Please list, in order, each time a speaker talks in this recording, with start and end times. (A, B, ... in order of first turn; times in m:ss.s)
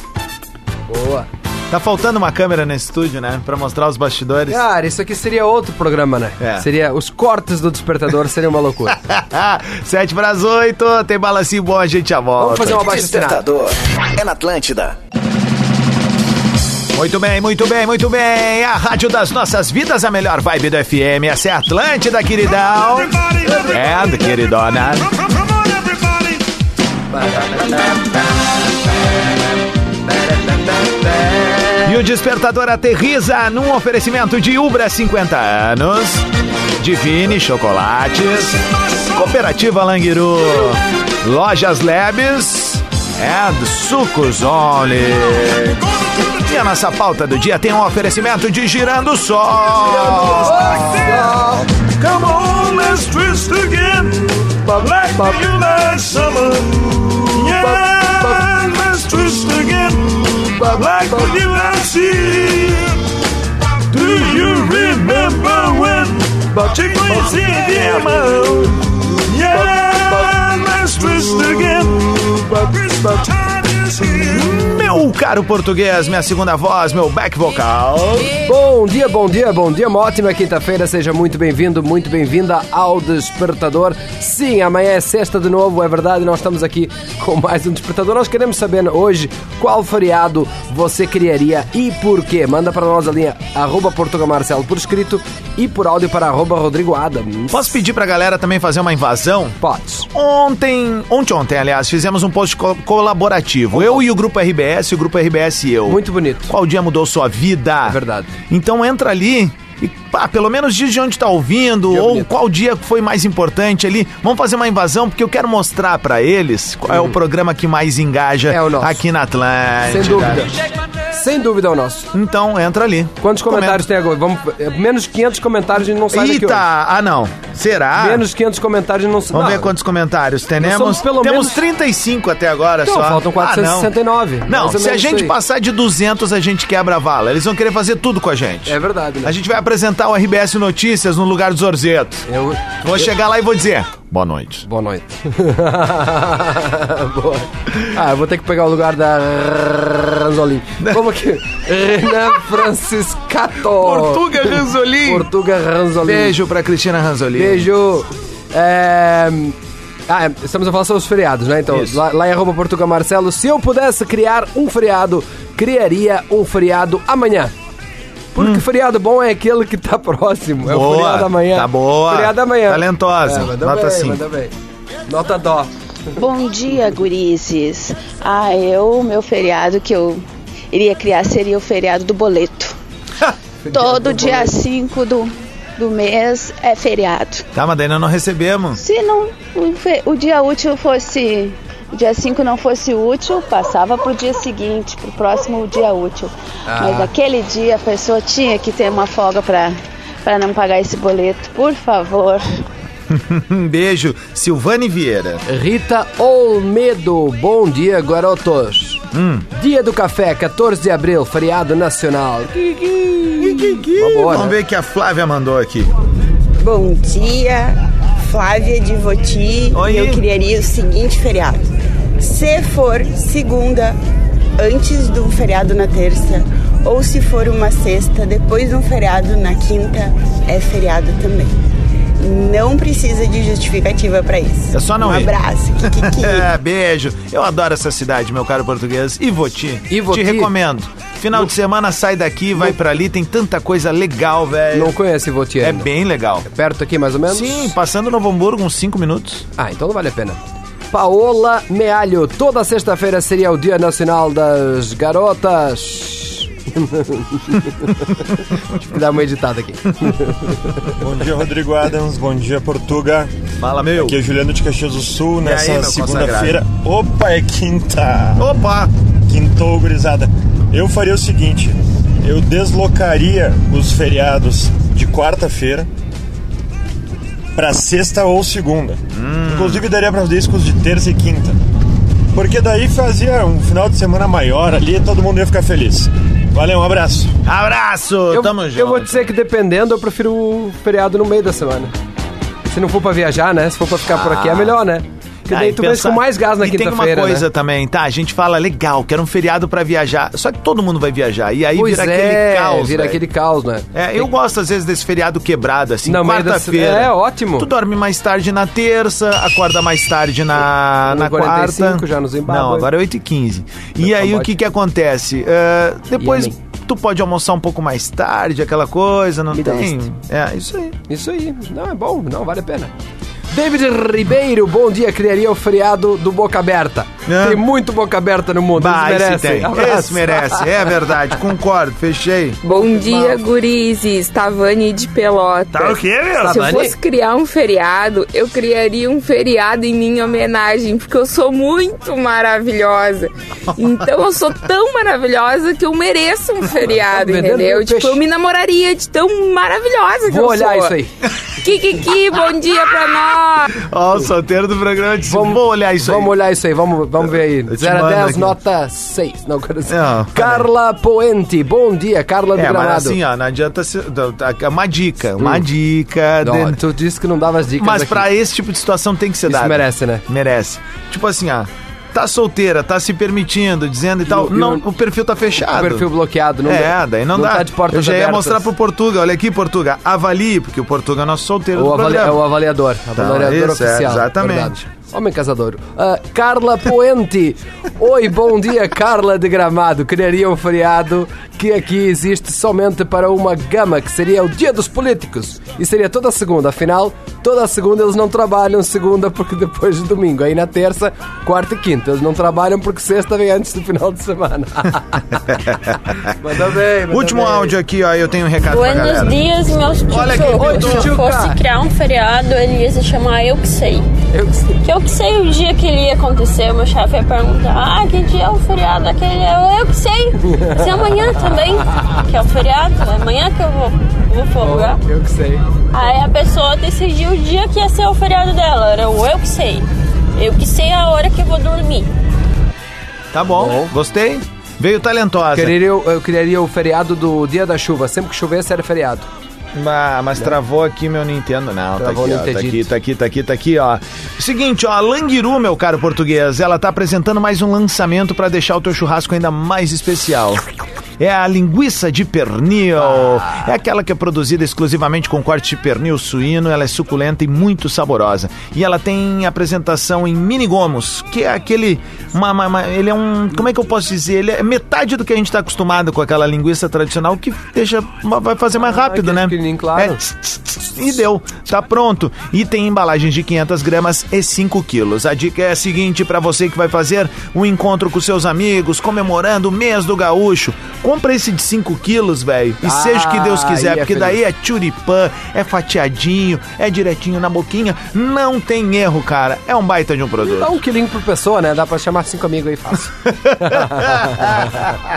0:00.9-0:01.3 A
0:01.7-0:04.6 B
0:04.5-0:09.0 A
0:06.4-0:06.7 B
0:08.9-0:13.1 B
0:12.4-0:13.4 A
0:12.8-0:15.0 C
0:16.9-0:25.2 B
0:23.4-0:24.1 A
0:27.2-0:27.7 A
0:31.0-0:31.7 A
0:31.8-0:36.3 B
0:36.8-1:03.0 B
0:49.9-0:51.7 A
0:54.6-0:55.4 A
0:57.6-0:58.4 A
1:00.5-1:01.3 A
1:03.9-1:12.3 B
1:06.6-1:07.6 A
1:09.5-1:10.3 A
1:12.4-1:13.3 A
1:14.0-1:18.3 B
1:18.4-1:37.8 A
1:37.5-1:39.6 B
1:39.6-1:40.1 A
1:40.1-1:48.0 B
1:43.7-1:44.0 A
1:45.9-1:46.5 A
1:47.9-1:48.3 A
1:48.5-2:00.5 B
1:51.9-1:52.3 A
1:56.9-1:57.2 A
1:58.5-1:59.0 A
1:59.9-2:00.6 A
2:01.1-2:02.1 A
2:02.1-2:03.9 B
2:03.2-2:06.6 A
2:06.1-2:08.3 B
2:08.0-2:09.7 A
2:09.3-2:13.9 B
2:10.6-2:11.6 A
2:12.8-2:15.3 A
2:14.5-2:22.3 B
2:18.7-2:19.4 A
2:22.3-2:22.8 A
2:22.8-2:24.6 B
2:24.7-2:36.4 A
2:33.7-2:35.3 B
2:36.0-2:37.7 B
2:37.4-2:39.6 A
2:40.1-2:47.5 A
2:41.7-2:42.0 B
2:48.4-2:54.5 A
2:48.4-2:48.6 B
2:50.6-2:54.2 B
2:55.1-2:55.7 A
2:56.2-3:02.8 D
3:03.6-3:04.5 A
3:03.7-3:07.4 D
3:07.6-3:08.8 B
3:08.8-3:22.5 D
3:16.7-3:17.1 A
3:23.1-3:25.4 B
3:25.5-3:29.0 A
3:29.1-3:29.5 B
3:29.5-3:34.6 A
3:33.4-3:35.9 B
3:36.6-3:44.0 E
3:39.7-3:40.2 B
3:44.6-3:51.5 E
3:52.2-3:56.5 E
3:54.7-3:55.3 B
3:55.9-4:05.0 B
3:59.9-4:00.5 A
4:04.7-4:05.9 A
4:05.6-4:06.5 B
4:06.4-4:07.7 A
4:07.3-4:09.5 B
4:09.6-4:10.4 A
4:10.9-4:20.9 A
4:21.0-4:23.3 F
4:23.6-4:24.2 B
4:24.0-4:28.4 F
4:25.4-4:26.6 B
4:28.4-4:28.9 B
4:29.3-4:35.9 F
4:37.6-4:41.6 F
4:39.1-4:39.9 B
4:42.3-4:47.4 F
4:47.4-4:49.3 B
4:48.3-4:51.9 A
4:52.7-4:57.5 A
4:54.0-4:54.8 B
4:55.5-5:03.2 B
5:01.8-5:04.3 A
5:03.9-5:21.0 B
5:06.1-5:07.7 A
5:11.1-5:12.9 A
5:14.0-5:14.5 A
5:16.2-5:16.6 A
5:19.5-5:20.1 A
5:21.1-5:22.9 A
5:23.5-5:30.8 A
5:27.3-5:27.6 B
5:28.8-5:32.6 B
5:32.6-5:51.0 G
5:32.8-5:33.4 A
5:35.7-5:36.8 B
5:36.4-5:36.9 A
5:47.0-5:48.2 A
5:50.3-5:51.2 A
5:51.6-5:53.8 G
5:53.7-5:56.4 B
5:55.3-6:03.2 A
5:57.2-5:58.6 B
5:59.9-6:00.7 B
6:02.6-6:06.8 B
6:05.4-6:05.6 A
6:06.4-6:08.3 A
6:07.8-6:16.1 B
6:09.5-6:10.2 A
6:14.3-6:14.8 A
6:15.6-6:18.7 A
6:16.6-6:22.4 B
6:21.8-6:45.4 A
6:23.2-6:24.7 B
6:45.5-6:46.0 B
6:46.3-6:47.8 A
6:47.1-6:49.4 B
6:48.7-6:54.1 H
6:50.1-6:51.2 B
6:50.5-6:51.6 A
6:54.3-6:54.8 A
6:54.8-7:05.0 H
7:00.5-7:00.8 A
7:01.9-7:02.2 A
7:04.6-7:05.6 A
7:05.9-7:12.1 H
7:13.3-7:15.8 B
7:13.6-7:13.9 A
7:15.5-7:19.3 A
7:19.7-7:30.6 B
7:22.0-7:22.9 A
7:31.2-8:10.8 B
7:33.0-7:33.7 A
7:48.8-7:50.2 A
8:02.8-8:04.4 A
8:10.4-8:15.0 A
8:13.4-8:14.6 B